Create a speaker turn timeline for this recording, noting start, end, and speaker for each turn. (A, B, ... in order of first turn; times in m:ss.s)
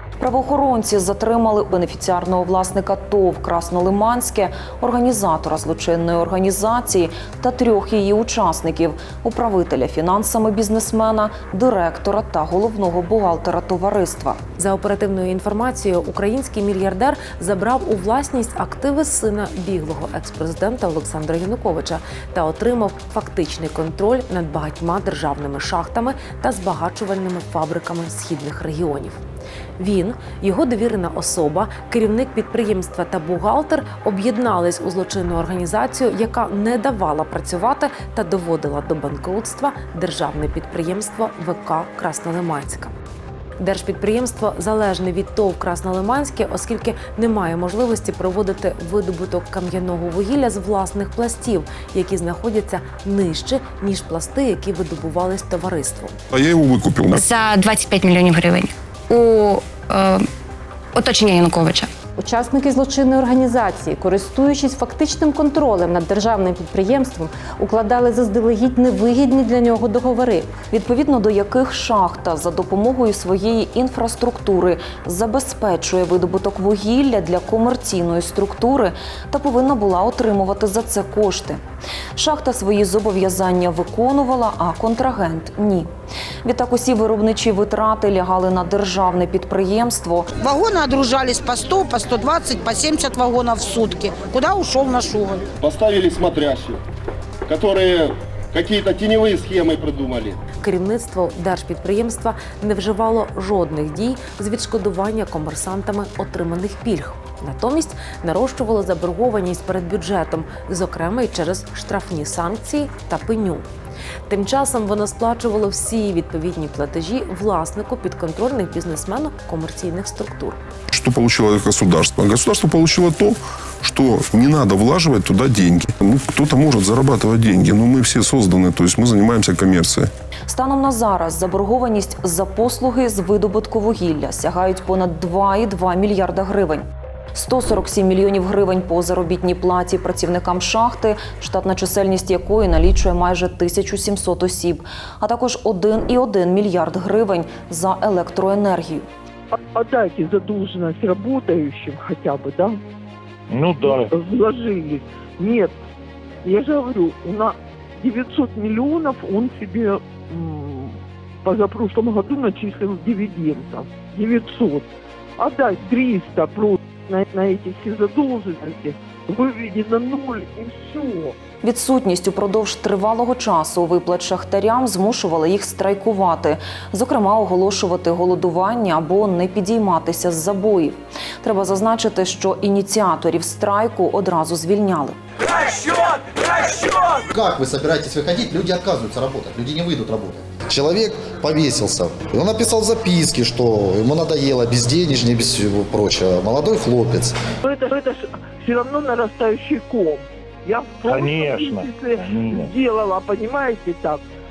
0:00.2-0:14.4 A
0:14.6-0:29.2 B
0:29.8-0:42.9 B
0:43.6-0:56.2 B
0:56.3-0:57.2 C
0:57.1-1:00.3 D
1:01.0-1:01.9 D
1:02.2-1:10.5 E
1:10.7-1:21.6 A
1:22.2-1:25.9 A
1:26.4-1:30.3 A
1:30.4-1:35.5 F
1:35.6-1:36.8 G
1:37.5-1:40.4 G
1:40.6-1:53.7 B
1:54.3-2:00.6 B
2:00.9-2:10.1 C
2:10.5-2:29.1 A
2:29.5-2:32.8 H
2:33.5-2:35.8 H
2:36.4-2:51.4 H
2:51.6-3:06.1 A
3:06.8-3:17.4 I
3:17.6-3:24.2 H